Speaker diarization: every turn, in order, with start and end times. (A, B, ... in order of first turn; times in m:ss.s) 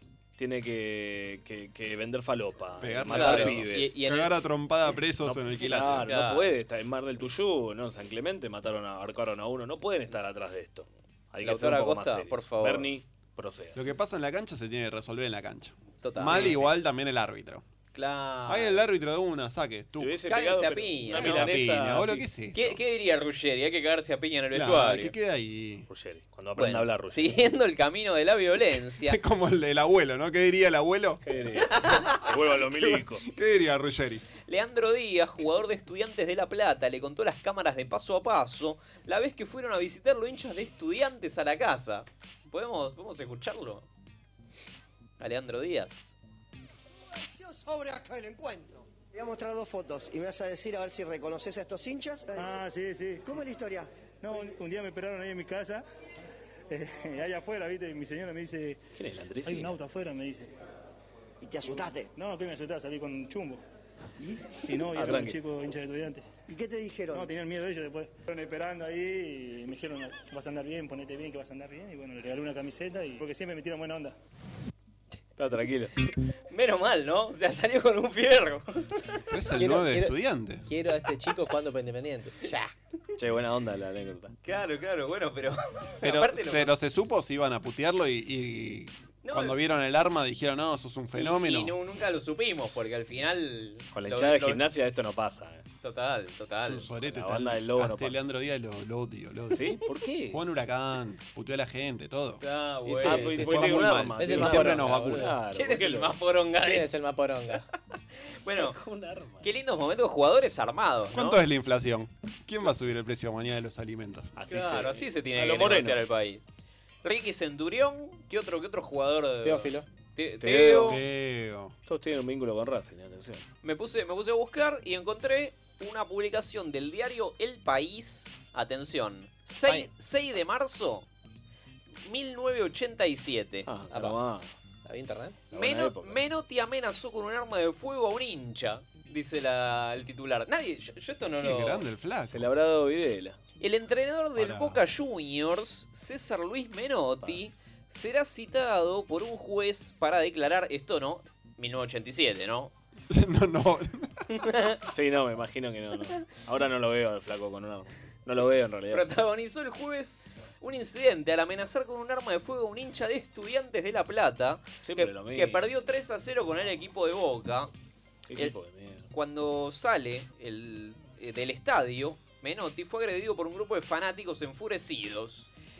0:00.4-0:03.9 A
0:02.8-0:06.1 B
0:03.1-0:04.4 C
0:05.2-0:13.8 A
0:06.1-0:06.5 C
0:11.4-0:12.9 C
0:13.8-0:17.6 B
0:16.0-0:16.7 C
0:16.2-0:16.7 A
0:17.9-0:18.8 C
0:18.5-0:20.2 B
0:20.0-0:22.3 A
0:20.3-0:21.7 C
0:21.1-0:22.8 B
0:22.5-0:25.1 C
0:24.5-0:25.9 B
0:25.9-0:27.4 A
0:26.6-0:29.2 C
0:29.0-0:31.2 B
0:31.3-0:33.2 A
0:31.7-0:32.2 C
0:33.2-0:34.2 B
0:34.5-0:43.9 C
0:45.2-0:46.2 C
0:47.2-0:52.6 D
0:52.4-0:53.2 E
0:53.2-0:53.9 D
0:54.2-0:55.8 E
0:56.7-0:58.8 E
0:59.0-0:59.7 A
0:59.4-1:00.5 E
1:01.4-1:02.1 D
1:02.2-1:03.6 E
1:04.6-1:06.2 E
1:04.9-1:05.4 A
1:06.5-1:07.3 D
1:07.1-1:14.2 E
1:15.4-1:15.9 A
1:16.5-1:18.9 C
1:19.3-1:20.7 B
1:19.5-1:20.2 F
1:20.7-1:22.7 F
1:23.2-1:24.3 A
1:24.4-1:26.7 C
1:26.0-1:31.8 B
1:29.2-1:29.6 C
1:31.2-1:34.6 C
1:33.9-1:35.6 A
1:35.8-1:36.9 C
1:36.6-1:39.8 B
1:37.0-1:38.2 A
1:39.5-1:40.4 A
1:40.3-1:42.4 B
1:42.4-1:44.0 C
1:42.9-1:45.4 F
1:43.0-1:46.1 A
1:43.4-1:45.2 B
1:45.5-1:46.9 C
1:46.6-1:47.6 F
1:48.4-1:48.8 C
1:48.5-1:49.5 A
1:49.4-1:51.4 C
1:51.1-1:54.3 B
1:54.4-1:56.0 A
1:54.5-1:56.4 C
1:57.0-2:01.0 C
1:59.4-1:59.9 F
2:00.4-2:01.0 A
2:00.8-2:01.8 B
2:01.9-2:03.4 A
2:03.6-2:11.1 C
2:12.0-2:13.7 C
2:13.6-2:14.7 A
2:13.9-2:14.2 F
2:14.8-2:15.5 F
2:15.5-2:16.2 A
2:15.5-2:21.8 C
2:21.4-2:22.5 B
2:22.3-2:23.4 A
2:23.6-2:32.7 C
2:24.4-2:24.8 B
2:27.2-2:27.5 A
2:33.1-2:34.1 B
2:34.4-2:34.8 C
2:34.9-2:39.1 A
2:38.9-2:47.7 C
2:44.8-2:45.6 A
2:48.3-2:49.1 A
2:49.1-2:55.5 C